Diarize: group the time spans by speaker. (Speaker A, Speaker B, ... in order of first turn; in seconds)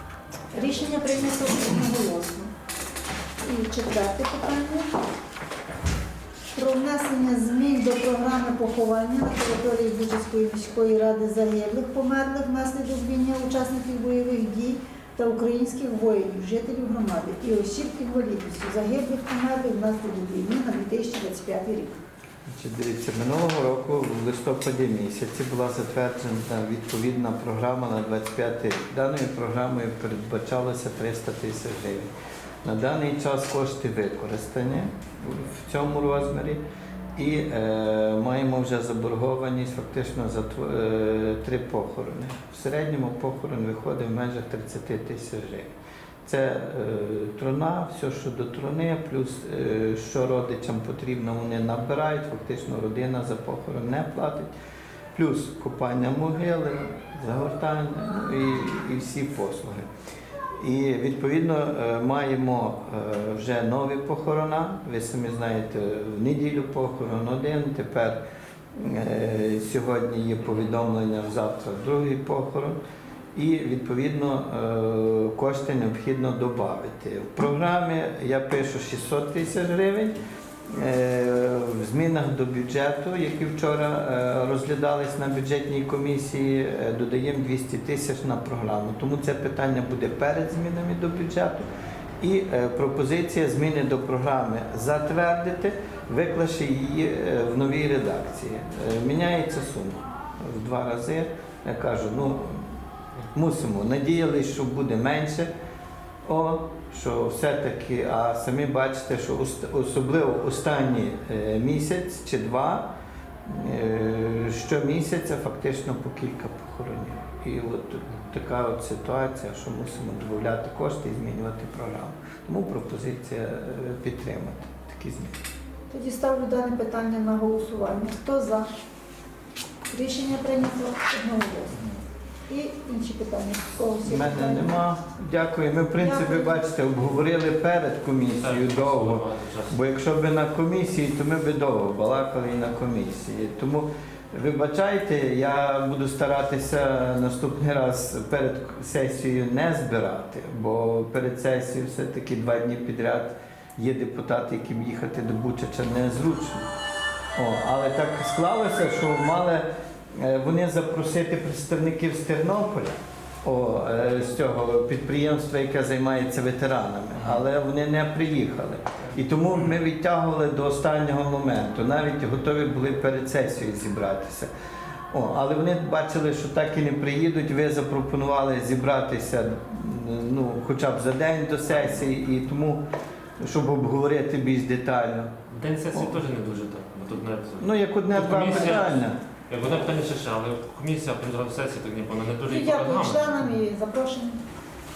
Speaker A: 0.5-2.5, 3.4-4.9, 6.5-21.9, 125.9-128.7, 129.9-131.8, 132.5-134.8, 136.0-136.6, 192.5-194.4
Speaker B: 22.5-32.1, 32.6-36.6, 37.1-45.7, 46.2-54.5, 55.1-59.9, 60.6-68.2, 68.8-72.8, 73.3-80.2, 80.7-91.7, 92.2-102.7, 103.3-105.5, 106.2-112.8, 113.5-125.3, 134.0-156.6, 157.3-174.5, 175.1-182.8, 183.4-185.3, 187.6-189.2
Speaker C: 138.4-139.8, 185.5-193.4